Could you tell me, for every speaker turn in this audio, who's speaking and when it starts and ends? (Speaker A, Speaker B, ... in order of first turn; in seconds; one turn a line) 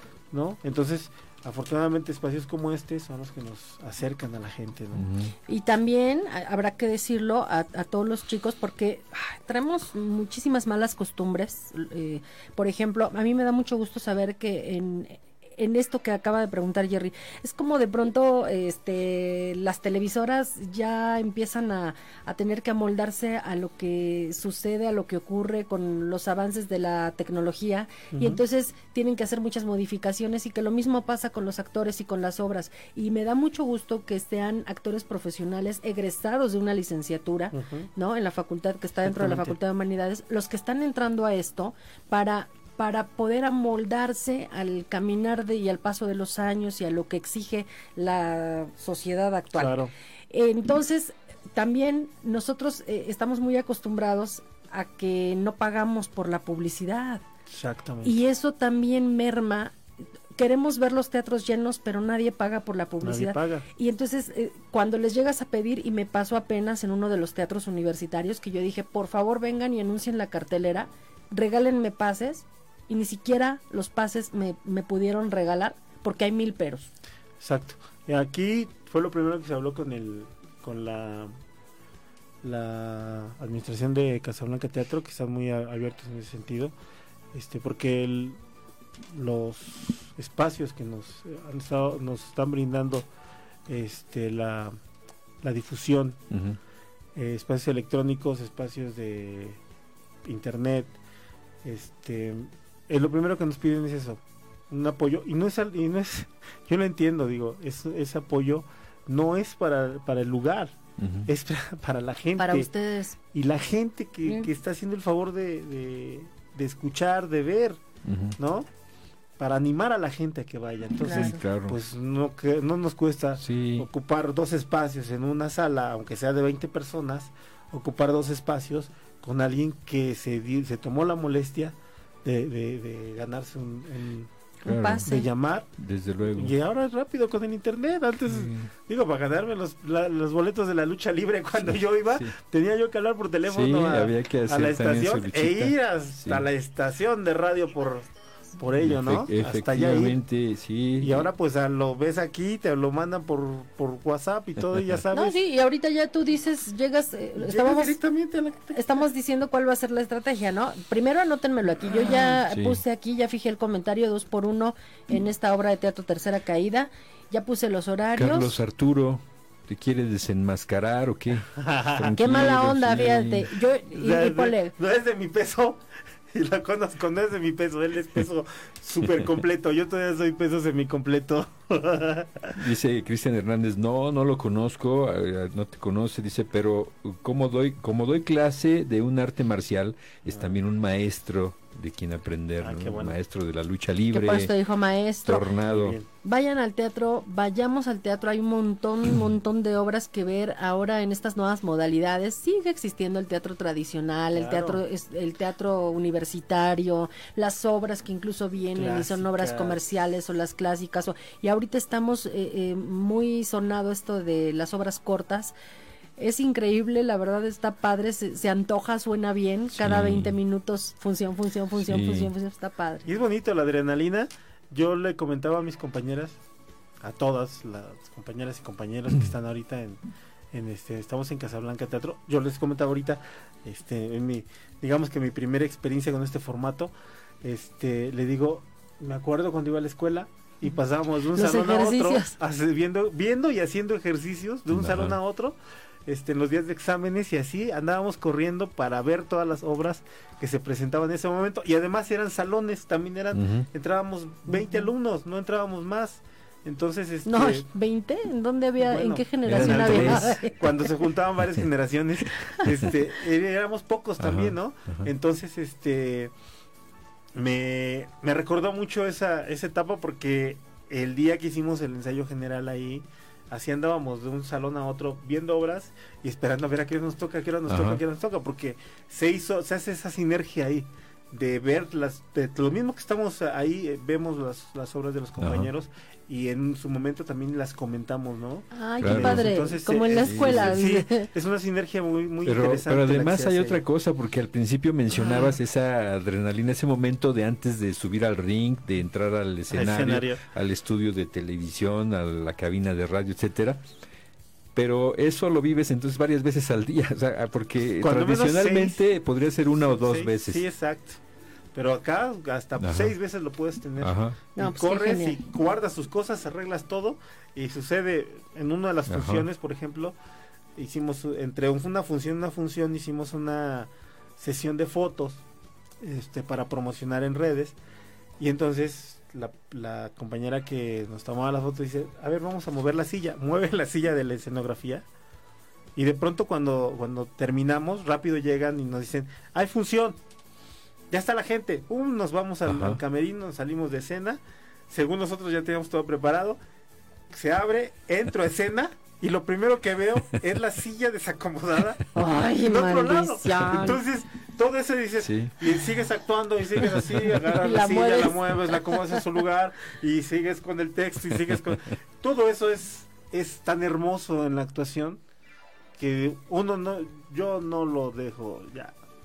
Speaker A: 0.3-5.1
Speaker B: 4.9-5.3
Speaker C: 5.5-49.8
Speaker A: 28.1-28.4
Speaker A: 37.5-37.9
Speaker A: 39.0-39.6
Speaker A: 49.5-49.9
Speaker C: 50.3-57.2
Speaker A: 57.5-58.1
Speaker C: 58.0-59.8
Speaker C: 60.3-76.9
Speaker A: 63.0-63.7
Speaker A: 77.4-81.3
Speaker A: 82.4-86.7
Speaker A: 87.3-88.4
Speaker A: 89.1-93.0
Speaker A: 93.7-94.8
Speaker A: 95.4-96.2
Speaker B: 96.3-96.6
Speaker A: 97.1-99.6
Speaker A: 100.2-101.0
Speaker A: 101.6-110.8
Speaker B: 111.0-111.3
Speaker A: 111.3-112.7
Speaker C: 112.4-113.1
Speaker A: 113.3-117.8
Speaker B: 118.0-118.4
Speaker A: 118.4-118.7
Speaker A: 119.4-134.3
Speaker C: 121.0-121.4
Speaker B: 121.1-121.8
Speaker B: 123.4-123.9
Speaker B: 134.6-135.1
Speaker C: 134.6-135.2
Speaker A: 135.0-135.7
Speaker B: 135.8-136.6
Speaker A: 136.2-150.2
Speaker B: 138.2-138.7
Speaker B: 142.1-142.3
Speaker B: 143.5-146.4
Speaker B: 148.8-151.3
Speaker A: 151.0-155.4
Speaker C: 155.1-158.0
Speaker A: 157.4-159.0
Speaker C: 158.7-168.6
Speaker B: 162.5-162.8
Speaker B: 168.1-173.5
Speaker A: 171.5-172.3
Speaker C: 172.2-174.7
Speaker A: 173.9-182.6
Speaker B: 182.6-194.5
Speaker A: 190.3-190.6
Speaker A: 192.6-193.2
Speaker C: 194.1-195.5
Speaker B: 195.2-196.0
Speaker A: 195.6-196.1
Speaker C: 196.2-215.5
Speaker A: 204.3-204.8
Speaker A: 208.7-209.8
Speaker C: 216.2-223.1
Speaker B: 219.8-220.3
Speaker B: 221.8-222.3
Speaker A: 223.1-226.4
Speaker A: 227.0-230.0
Speaker A: 230.5-236.9
Speaker A: 237.4-245.6
Speaker C: 241.3-242.3
Speaker B: 244.7-245.2
Speaker A: 246.1-257.7
Speaker B: 253.3-253.7
Speaker C: 254.5-254.8
Speaker C: 257.2-260.8
Speaker A: 258.8-266.3
Speaker B: 259.4-260.3
Speaker B: 262.6-262.9
Speaker B: 264.2-265.1
Speaker A: 267.3-293.8
Speaker B: 277.7-278.0
Speaker B: 285.4-285.7
Speaker C: 288.7-291.3
Speaker B: 289.0-289.5
Speaker B: 290.2-290.8
Speaker B: 292.4-303.8
Speaker C: 295.1-295.6
Speaker A: 299.7-300.4
Speaker B: 304.7-310.6
Speaker A: 308.0-309.0
Speaker A: 309.7-311.2
Speaker A: 311.7-320.1
Speaker B: 312.8-313.1
Speaker B: 314.0-314.4
Speaker C: 314.6-315.4
Speaker B: 319.1-319.5
Speaker A: 320.8-325.4
Speaker A: 326.0-327.8
Speaker A: 328.4-335.0
Speaker A: 335.9-340.2
Speaker A: 341.1-346.6
Speaker B: 342.6-343.0
Speaker A: 347.3-365.2
Speaker C: 352.1-354.0
Speaker B: 355.2-355.5
Speaker C: 357.4-359.2
Speaker A: 366.0-368.9